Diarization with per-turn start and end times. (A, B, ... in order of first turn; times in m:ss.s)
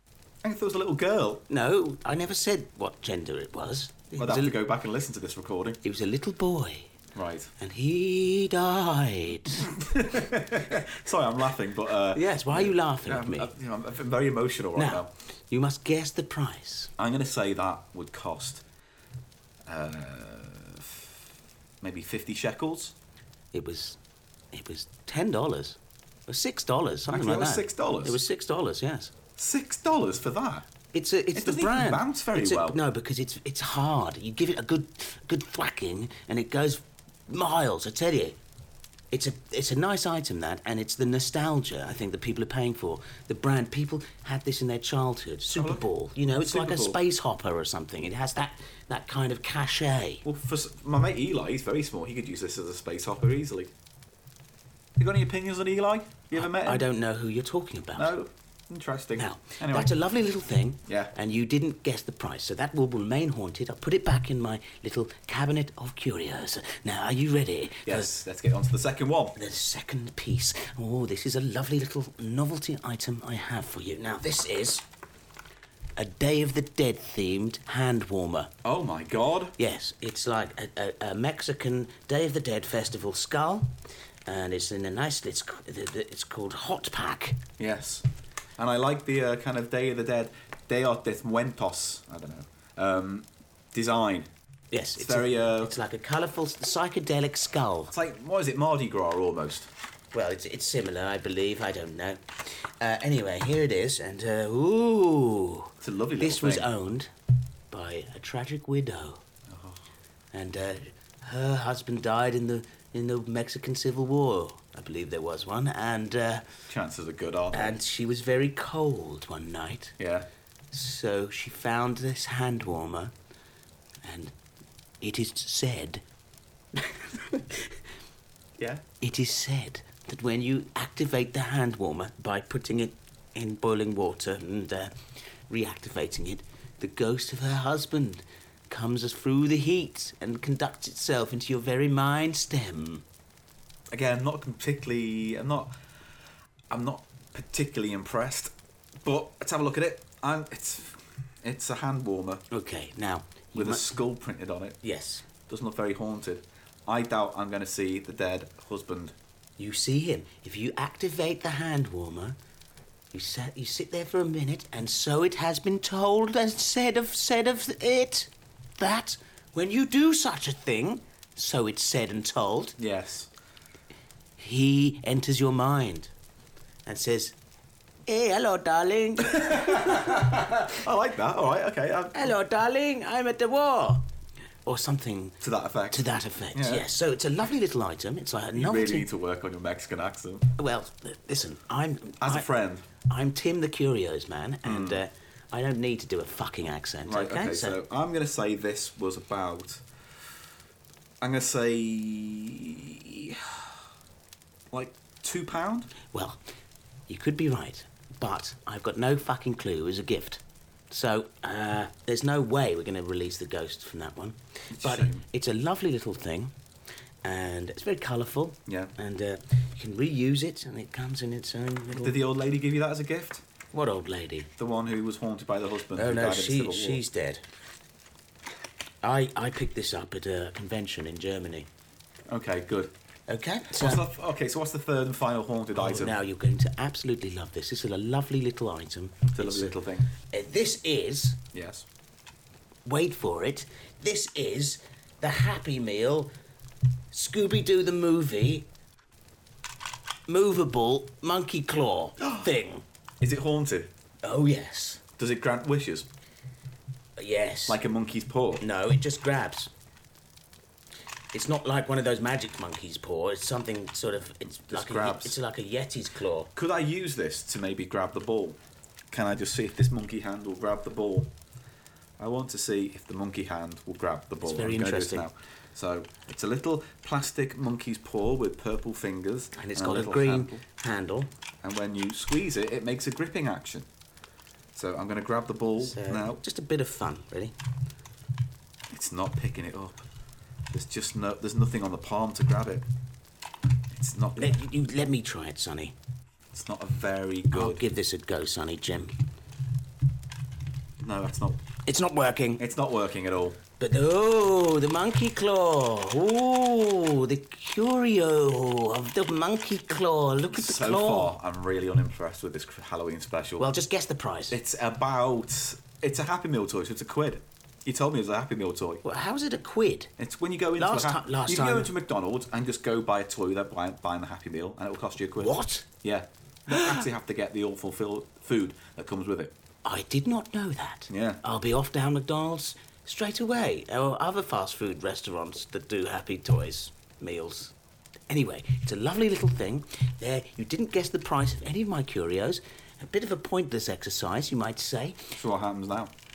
0:00.4-0:01.4 A
0:01.5-0:04.6 B
0:04.2-0:05.8 A
0:05.8-0:06.9 B
0:07.1-0:07.5 A
0:07.6-0:09.8 B
0:09.6-0:15.1 A
0:12.1-0:13.5 B
0:14.8-0:16.9 B
0:17.0-0:18.6 A
0:19.6-0:21.3 A
0:21.8-0:22.9 A
0:23.5-0:24.0 B
0:24.5-0:29.1 B
0:27.1-0:28.2 A
0:29.4-0:30.7 A
0:30.9-0:38.4 B
0:31.3-0:32.8 A
0:39.1-0:50.2 B
0:45.5-0:45.9 A
0:46.4-0:47.0 A
0:50.2-0:53.7 A
0:55.0-0:56.8 A
0:56.3-0:58.1 B
0:58.0-1:00.0 A
0:59.2-1:08.1 B
1:00.8-1:01.1 A
1:07.8-1:09.4 A
1:09.4-1:14.8 B
1:16.0-1:18.5 B
1:18.6-1:19.6 A
1:19.6-1:23.7 B
1:24.2-1:27.4 B
1:27.6-1:28.0 A
1:28.6-1:34.3 A
1:34.7-1:37.9 B
1:35.0-1:35.8 A
1:37.9-1:39.7 A
1:40.1-1:47.1 B
1:45.8-1:46.7 A
1:47.7-1:49.2 B
1:49.5-1:49.8 A
1:50.3-1:56.4 B
1:56.7-1:57.8 A
1:57.5-2:00.0 B
2:00.0-2:00.3 A
2:00.7-2:03.1 B
2:04.0-2:04.3 B
2:05.0-2:06.0 B
2:06.8-2:07.8 B
2:08.6-2:08.8 A
2:09.0-2:14.9 B
2:15.5-2:23.0 B
2:23.9-2:25.7 A
2:26.7-2:32.4 A
2:32.5-2:33.9 B
2:33.5-2:34.8 A
2:34.8-2:35.2 B
2:35.5-2:39.1 A
2:39.6-2:42.4 B
2:43.1-2:52.8 B
2:52.8-2:53.3 A
2:54.4-2:56.1 B
2:56.8-2:57.4 B
2:58.0-3:00.7 B
2:59.3-3:02.3 A
3:02.1-3:04.0 B
3:04.6-3:05.4 B
3:05.4-3:06.9 A
3:05.9-3:09.1 B
3:08.5-3:10.5 A
3:10.6-3:17.8 B
3:12.2-3:12.8 A
3:14.6-3:15.0 A
3:17.0-3:19.8 A
3:21.2-3:23.8 A
3:24.7-3:25.9 A
3:26.1-3:26.4 B
3:27.1-3:36.5 B
3:34.7-3:35.2 A
3:37.2-3:42.2 B
3:38.7-3:38.9 A
3:41.9-3:43.4 A
3:43.7-3:44.5 B
3:44.6-3:47.0 A
3:45.9-3:47.4 B
3:49.0-3:51.7 B
3:52.3-3:52.9 A
3:53.3-3:54.0 B
3:53.7-3:56.2 A
3:55.8-4:01.4 B
3:59.3-4:00.1 A
4:01.5-4:01.8 A
4:02.8-4:06.3 B
4:07.1-4:08.7 B
4:10.3-4:12.8 B
4:13.2-4:13.9 A
4:14.2-4:15.0 B
4:15.2-4:16.1 A
4:17.2-4:17.8 B
4:17.7-4:18.6 A
4:18.6-4:19.7 B
4:21.3-4:26.5 B
4:24.6-4:25.4 A
4:26.5-4:28.6 A
4:29.1-4:31.3 A
4:32.2-4:40.6 A
4:34.4-4:35.3 B
4:39.6-4:41.3 B
4:41.6-4:43.9 A
4:44.7-4:46.4 A
4:45.8-4:47.5 B
4:48.9-4:50.0 A
4:50.7-4:52.9 A
4:53.9-4:54.6 A
4:54.4-4:55.9 B
4:56.5-4:57.8 A
4:57.5-4:59.1 B
5:01.0-5:01.6 A
5:01.8-5:02.6 B
5:02.6-5:03.6 A
5:03.8-5:11.3 B
5:10.5-5:13.7 A
5:13.6-5:14.6 B
5:14.5-5:19.0 A
5:19.0-5:20.1 B
5:20.2-5:29.5 A
5:20.8-5:21.9 B
5:25.4-5:25.9 B
5:26.7-5:27.0 B
5:29.8-5:37.7 B
5:31.1-5:31.4 A
5:38.3-5:45.3 B
5:45.3-5:46.1 A